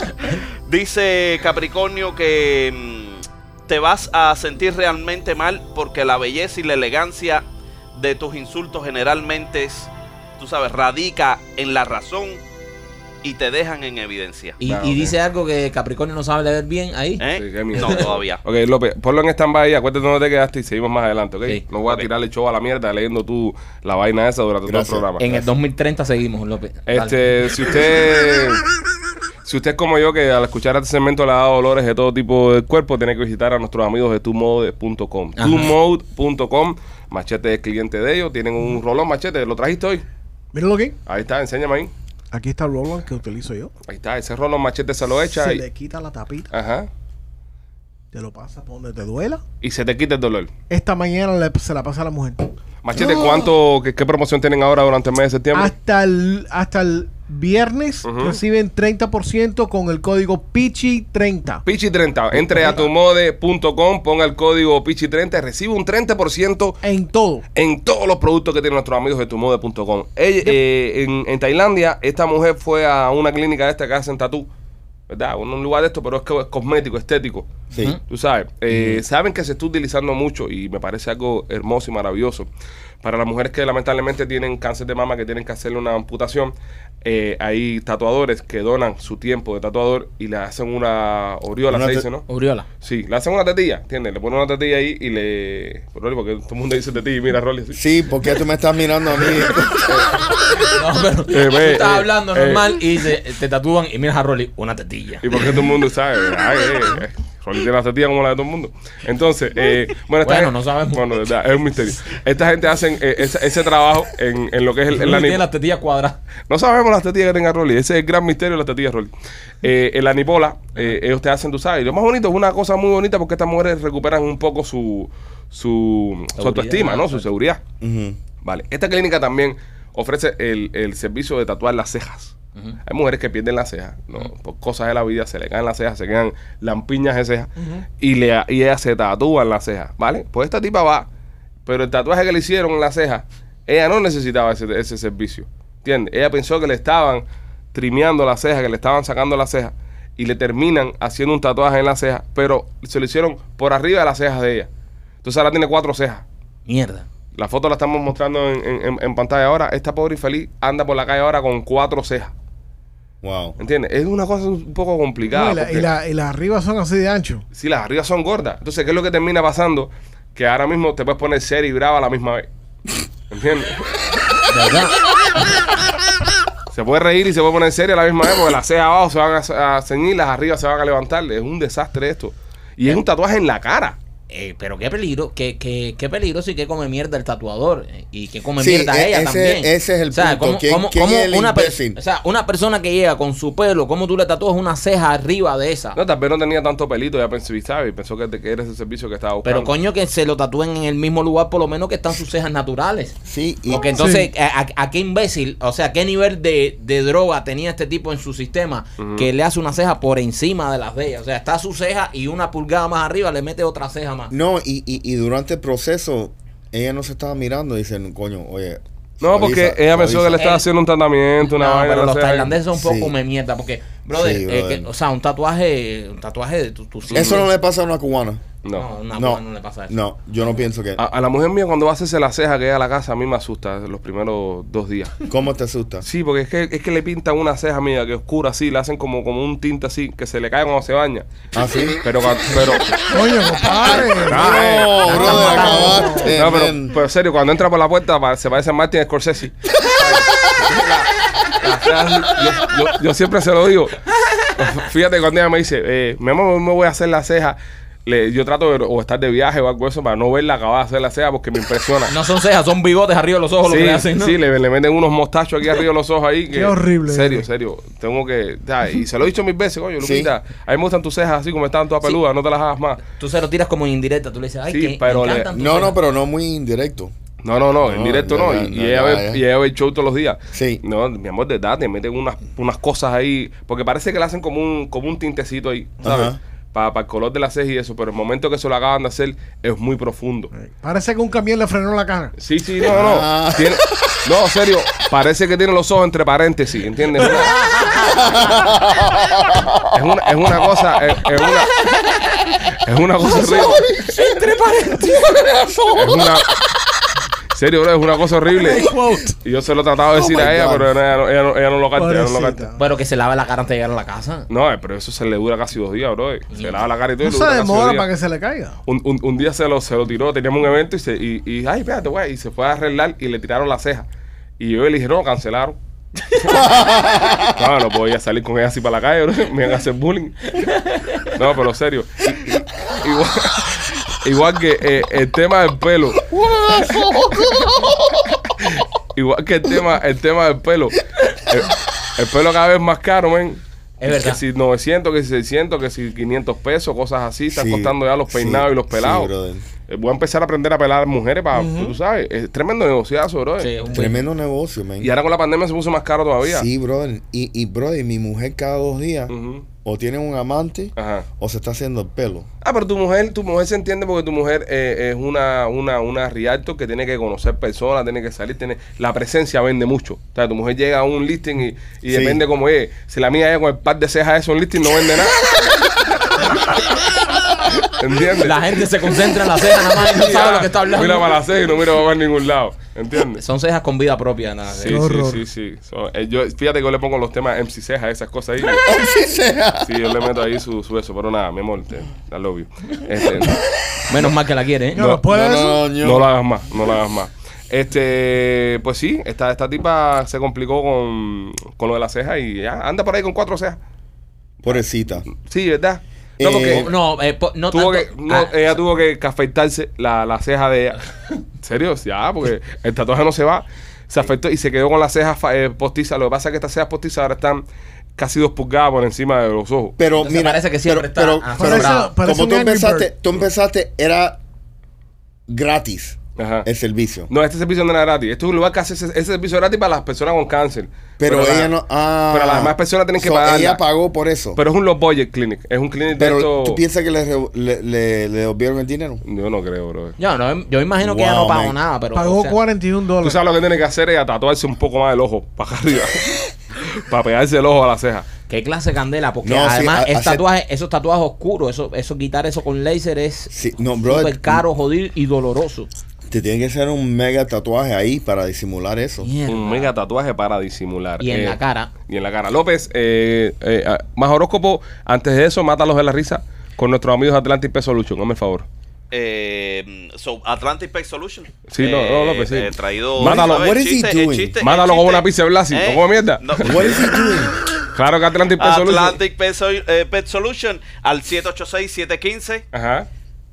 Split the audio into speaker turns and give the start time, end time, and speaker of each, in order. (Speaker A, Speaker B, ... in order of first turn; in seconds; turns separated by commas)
Speaker A: 0.7-12.4, Speaker A: 13.2-14.6, Speaker B: 14.6-17.2, Speaker C: 14.6-15.1, Speaker A: 17.2-18.4, Speaker C: 17.3-25.2, Speaker D: 24.6-25.5, Speaker B: 25.2-27.4, Speaker C: 26.9-28.6, Speaker C: 29.4-40.0, Speaker B: 35.4-35.7, Speaker E: 40.5-41.0, Speaker C: 41.0-41.9, Speaker E: 42.3-43.7, Speaker C: 43.9-45.6, Speaker E: 45.3-46.5, Speaker C: 46.5-46.9, Speaker E: 48.1-49.4, Speaker C: 49.6-50.5, Speaker E: 50.7-53.4, Speaker C: 52.8-55.7, Speaker E: 55.5-61.6, Speaker C: 58.0-58.4, Speaker C: 61.6-66.8, Speaker E: 62.4-62.9, Speaker E: 66.8-67.4, Speaker C: 67.5-74.5, Speaker C: 75.1-77.5, Speaker C: 78.0-82.5, Speaker C: 83.0-92.3, Speaker D: 91.7-92.0, Speaker B: 92.3-92.7, Speaker C: 92.8-97.8, Speaker D: 97.7-100.2, Speaker C: 99.8-100.2, Speaker B: 100.7-105.4, Speaker C: 101.3-102.8, Speaker C: 105.2-115.4, Speaker B: 110.2-111.1, Speaker B: 114.9-116.2, Speaker C: 116.5-119.1, Speaker C: 119.6-127.6, Speaker B: 126.4-127.2, Speaker D: 127.8-128.2, Speaker C: 128.4-141.1, Speaker C: 141.7-154.7, Speaker C: 155.2-156.2, Speaker B: 156.7-157.1, Speaker C: 157.3-162.3, Speaker D: 163.2-163.6, Speaker C: 163.6-165.9, Speaker E: 165.3-167.4, Speaker C: 167.5-172.4, Speaker C: 173.3-173.9, Speaker B: 174.5-174.9, Speaker C: 176.7-184.0, Speaker B: 184.3-196.0, Speaker D: 188.6-192.0, Speaker C: 195.9-199.7, Speaker B: 199.4-203.2, Speaker D: 203.2-204.1, Speaker B: 203.7-214.3, Speaker E: 203.9-204.3, Speaker C: 209.0-209.3, Speaker D: 214.3-220.4, Speaker C: 219.2-222.6, Speaker B: 220.3-220.7, Speaker B: 221.4-227.5, Speaker D: 222.7-223.1, Speaker D: 224.1-224.9, Speaker C: 227.1-227.4, Speaker D: 227.1-228.4, Speaker B: 228.7-229.9, Speaker D: 229.1-231.0, Speaker C: 231.0-235.2, Speaker D: 235.3-236.1, Speaker C: 236.0-241.2, Speaker D: 241.5-242.0, Speaker C: 242.0-243.1, Speaker E: 243.1-246.4, Speaker C: 243.8-251.1, Speaker D: 244.1-247.0, Speaker B: 245.1-246.1, Speaker C: 251.6-254.0, Speaker C: 254.6-262.1, Speaker B: 262.1-264.4, Speaker C: 263.6-273.0, Speaker E: 266.5-267.4, Speaker D: 270.0-270.3, Speaker B: 273.1-275.9, Speaker C: 274.7-275.5, Speaker D: 275.5-277.1, Speaker C: 277.4-290.5, Speaker D: 277.8-279.4, Speaker D: 280.5-280.8, Speaker D: 286.0-286.4, Speaker E: 290.5-292.3, Speaker C: 292.4-297.6, Speaker D: 292.8-293.8, Speaker D: 298.0-299.9, Speaker C: 299.9-301.8, Speaker C: 302.8-303.8, Speaker D: 303.4-304.3, Speaker B: 304.1-305.2, Speaker E: 304.3-304.5, Speaker D: 305.1-306.4, Speaker C: 305.9-306.5, Speaker C: 307.5-308.9, Speaker E: 308.6-309.4, Speaker C: 309.4-312.7, Speaker D: 310.1-310.9, Speaker E: 311.9-312.8, Speaker B: 312.8-314.5, Speaker C: 314.5-318.1, Speaker B: 316.5-316.8, Speaker E: 317.2-318.8, Speaker C: 318.9-324.1, Speaker C: 324.6-325.8, Speaker D: 326.5-327.6, Speaker C: 327.4-330.7, Speaker B: 330.6-331.3, Speaker C: 331.2-336.3, Speaker D: 336.3-338.2, Speaker C: 336.8-337.5, Speaker C: 338.6-349.3, Speaker B: 344.0-344.4, Speaker D: 347.5-349.6, Speaker C: 349.9-353.7, Speaker E: 351.6-351.9, Speaker B: 353.6-354.2, Speaker D: 353.9-355.1, Speaker C: 355.0-356.7, Speaker D: 356.4-359.3, Speaker C: 359.3-359.6, Speaker D: 359.8-362.5, Speaker C: 361.0-361.2, Speaker C: 362.6-375.4, Speaker D: 372.1-372.4, Speaker C: 376.4-376.7, Speaker C: 377.8-378.6, Speaker B: 378.4-381.3, Speaker C: 380.0-383.4, Speaker B: 383.4-385.0, Speaker C: 384.7-388.9, Speaker E: 384.9-385.4, Speaker D: 388.8-390.0, Speaker C: 389.8-393.6, Speaker B: 394.1-395.1, Speaker E: 394.9-395.9, Speaker C: 394.9-395.2, Speaker D: 395.3-396.3, Speaker C: 396.0-403.8, Speaker D: 404.6-405.3, Speaker C: 405.4-406.9, Speaker D: 406.4-406.9, Speaker B: 406.6-408.8, Speaker C: 407.7-411.0, Speaker C: 411.6-417.6, Speaker C: 418.2-419.9, Speaker D: 420.0-424.4, Speaker B: 420.1-422.1, Speaker E: 421.6-423.1, Speaker D: 425.5-427.3, Speaker C: 426.4-426.7, Speaker C: 427.3-431.7, Speaker D: 431.2-434.6, Speaker C: 432.3-433.8, Speaker C: 434.6-436.8, Speaker D: 436.1-439.2, Speaker C: 439.2-440.2, Speaker B: 440.2-442.6, Speaker D: 441.0-441.8, Speaker E: 442.1-443.4, Speaker C: 443.2-448.3, Speaker B: 448.5-455.9, Speaker D: 449.4-450.4, Speaker D: 453.5-454.6, Speaker D: 456.3-459.3, Speaker B: 459.2-459.9, Speaker C: 459.5-468.7, Speaker B: 461.2-461.9, Speaker A: 469.1-477.3, Speaker C: 471.7-473.7, Speaker D: 473.2-474.5, Speaker C: 474.6-477.1, Speaker D: 476.6-477.6, Speaker C: 477.9-479.2, Speaker A: 478.6-482.6, Speaker C: 482.7-483.1